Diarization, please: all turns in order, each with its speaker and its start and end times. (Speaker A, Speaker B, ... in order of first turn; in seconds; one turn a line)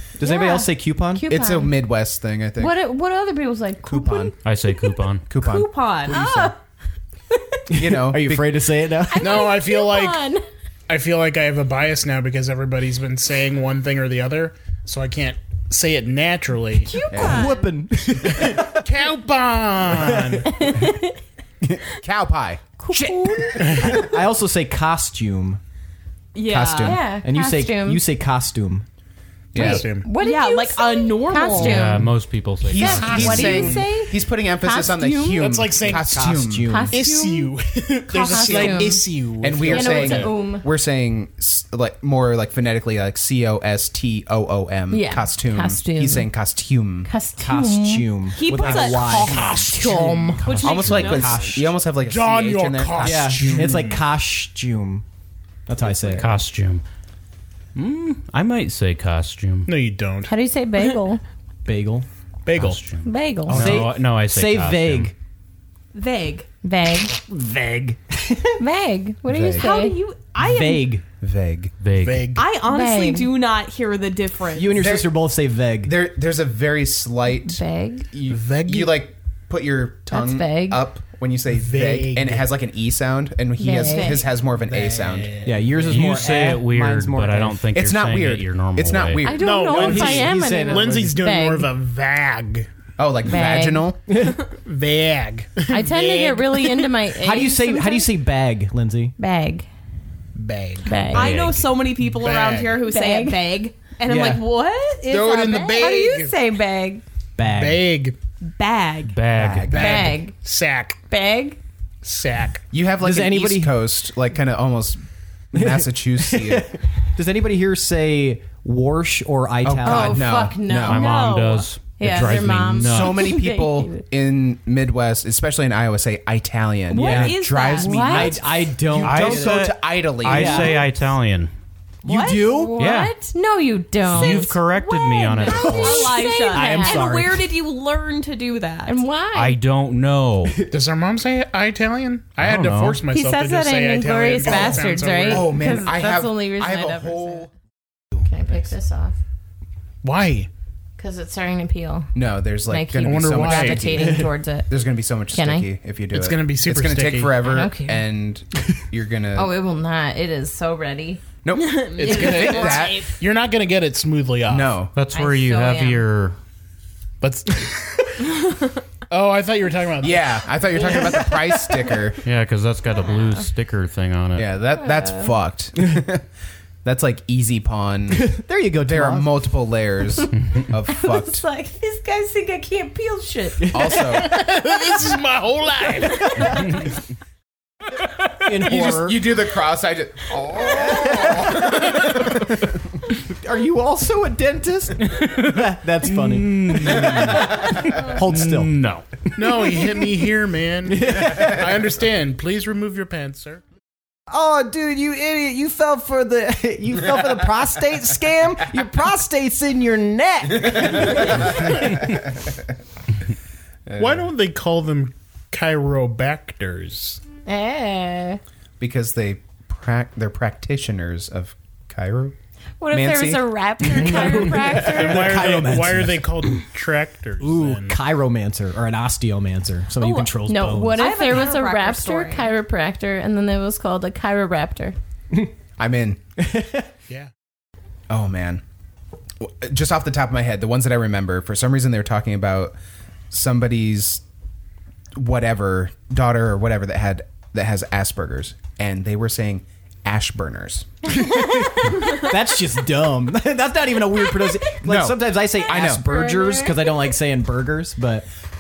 Speaker A: 0.2-1.3
Speaker B: 0.2-1.8
Speaker C: 1.3-2.8
Speaker B: 2.6-4.3
Speaker C: 3.8-4.3
Speaker D: 4.4-5.2
Speaker C: 5.3-6.5
Speaker E: 5.3-6.2
Speaker B: 6.1-6.6
Speaker B: 7.3-7.6
Speaker C: 7.7-8.6
Speaker A: 7.7-9.5
Speaker B: 9.1-10.4
Speaker F: 9.2-10.3
Speaker F: 10.9-17.0
Speaker B: 16.8-17.8
Speaker C: 17.1-17.6
Speaker A: 17.1-18.9
Speaker F: 18.2-20.6
Speaker A: 19.9-20.5
Speaker B: 20.5-21.2
Speaker C: 21.6-24.1
Speaker B: 22.8-24.1
Speaker A: 23.8-25.6
Speaker E: 26.3-27.0
Speaker C: 26.5-27.1
Speaker B: 26.8-28.1
Speaker A: 27.2-28.9
Speaker C: 29.5-29.9
Speaker B: 29.6-32.1
Speaker F: 29.6-30.1
Speaker E: 30.0-32.0
Speaker D: 31.5-33.8
Speaker C: 32.6-36.8
Speaker B: 32.7-35.8
Speaker F: 35.4-36.4
Speaker A: 35.9-37.1
Speaker B: 36.6-37.5
Speaker F: 36.9-40.3
Speaker B: 38.1-40.7
Speaker C: 39.4-47.1
Speaker B: 44.9-46.3
Speaker B: 47.0-48.2
Speaker A: 47.4-51.7
Speaker E: 48.3-49.6
Speaker F: 48.7-50.5
Speaker D: 50.4-50.9
Speaker E: 50.4-51.6
Speaker C: 50.6-53.9
Speaker F: 52.0-54.0
Speaker A: 53.0-55.0
Speaker A: 55.7-56.3
Speaker D: 56.2-56.8
Speaker D: 57.8-59.7
Speaker F: 59.7-60.4
Speaker B: 60.3-61.2
Speaker A: 61.6-62.1
Speaker F: 62.5-62.8
Speaker D: 62.5-65.1
Speaker B: 63.0-63.7
Speaker A: 63.5-65.2
Speaker F: 63.5-63.8
Speaker E: 65.9-66.5
Speaker B: 66.6-67.2
Speaker A: 67.2-68.6
Speaker B: 68.6-70.0
Speaker C: 69.3-69.7
Speaker E: 69.6-71.0
Speaker A: 70.4-71.0
Speaker C: 71.2-71.8
Speaker D: 71.8-72.3
Speaker F: 72.0-72.5
Speaker E: 72.3-75.0
Speaker B: 72.6-73.3
Speaker A: 74.5-76.0
Speaker C: 74.8-75.1
Speaker C: 75.8-85.4
Speaker B: 77.3-78.1
Speaker F: 78.2-79.0
Speaker B: 80.1-80.9
Speaker F: 81.5-82.5
Speaker B: 83.6-84.5
Speaker F: 84.6-86.1
Speaker A: 85.4-87.6
Speaker D: 85.9-89.3
Speaker C: 87.8-89.5
Speaker B: 89.2-91.7
Speaker F: 89.4-92.7
Speaker A: 89.6-91.2
Speaker C: 93.0-94.0
Speaker B: 93.3-93.9
Speaker A: 94.1-94.4
Speaker F: 94.4-97.0
Speaker B: 95.7-98.1
Speaker A: 97.2-99.2
Speaker B: 99.2-99.7
Speaker F: 100.3-102.8
Speaker B: 100.8-101.5
Speaker E: 101.1-106.3
Speaker B: 102.9-103.4
Speaker A: 104.1-104.4
Speaker C: 105.1-105.7
Speaker F: 105.2-106.4
Speaker B: 105.8-107.0
Speaker A: 107.4-107.9
Speaker F: 107.5-108.2
Speaker E: 108.4-109.2
Speaker D: 109.1-110.1
Speaker C: 109.4-110.2
Speaker A: 109.4-109.9
Speaker B: 109.7-110.4
Speaker F: 109.8-111.0
Speaker B: 111.1-111.6
Speaker F: 112.0-112.6
Speaker C: 112.7-116.7
Speaker A: 113.0-113.9
Speaker A: 115.5-120.3
Speaker C: 119.6-121.1
Speaker B: 119.8-121.3
Speaker D: 120.8-123.3
Speaker E: 120.9-121.7
Speaker B: 122.0-124.0
Speaker C: 122.7-130.8
Speaker E: 126.9-128.0
Speaker A: 126.9-127.4
Speaker B: 127.8-128.4
Speaker A: 128.0-130.8
Speaker D: 129.0-131.5
Speaker E: 132.1-132.6
Speaker A: 132.1-132.8
Speaker B: 132.1-134.6
Speaker D: 132.8-133.2
Speaker D: 134.1-136.2
Speaker E: 134.1-139.0
Speaker B: 135.5-137.2
Speaker A: 135.6-137.4
Speaker B: 138.9-139.6
Speaker D: 139.3-140.7
Speaker F: 140.6-145.7
Speaker D: 142.4-143.0
Speaker B: 143.1-147.5
Speaker C: 144.5-147.5
Speaker B: 148.2-149.2
Speaker F: 150.0-150.5
Speaker B: 151.0-152.1
Speaker C: 152.2-159.6
Speaker B: 152.7-154.8
Speaker F: 153.0-154.0
Speaker A: 153.9-154.3
Speaker B: 155.3-155.7
Speaker F: 156.1-157.4
Speaker B: 157.4-158.1
Speaker B: 159.3-161.2
Speaker C: 161.4-163.1
Speaker E: 161.5-163.2
Speaker F: 162.2-162.6
Speaker B: 162.4-162.9
Speaker F: 163.2-164.8
Speaker C: 164.5-164.9
Speaker D: 164.9-166.4
Speaker B: 165.1-166.1
Speaker F: 167.2-168.6
Speaker F: 169.1-171.1
Speaker C: 170.0-172.2
Speaker D: 172.2-174.5
Speaker C: 174.4-176.3
Speaker B: 174.8-175.3
Speaker C: 176.8-178.3
Speaker A: 178.1-179.3
Speaker C: 178.9-181.5
Speaker B: 180.9-184.2
Speaker A: 183.6-184.0
Speaker C: 183.7-184.4
Speaker F: 184.1-186.8
Speaker A: 188.4-189.5
Speaker C: 188.6-192.4
Speaker A: 190.7-192.6
Speaker A: 193.1-198.7
Speaker D: 195.1-195.6
Speaker D: 196.2-199.3
Speaker F: 199.3-203.6
Speaker A: 200.9-201.8
Speaker A: 204.3-211.6
Speaker C: 211.2-212.2
Speaker C: 213.9-214.2
Speaker F: 214.0-217.2
Speaker B: 217.4-218.4
Speaker C: 218.8-222.4
Speaker B: 222.8-225.4
Speaker C: 222.9-224.2
Speaker A: 223.9-226.6
Speaker F: 224.3-228.0
Speaker A: 227.4-231.1
Speaker E: 230.0-230.3
Speaker B: 230.4-234.9
Speaker E: 230.9-232.5
Speaker C: 235.8-236.2
Speaker A: 236.4-236.9
Speaker C: 238.1-238.6
Speaker C: 239.4-242.8
Speaker C: 243.3-244.2
Speaker C: 245.2-250.9
Speaker A: 251.2-258.3
Speaker B: 251.5-252.1
Speaker C: 254.8-256.1
Speaker B: 256.0-256.9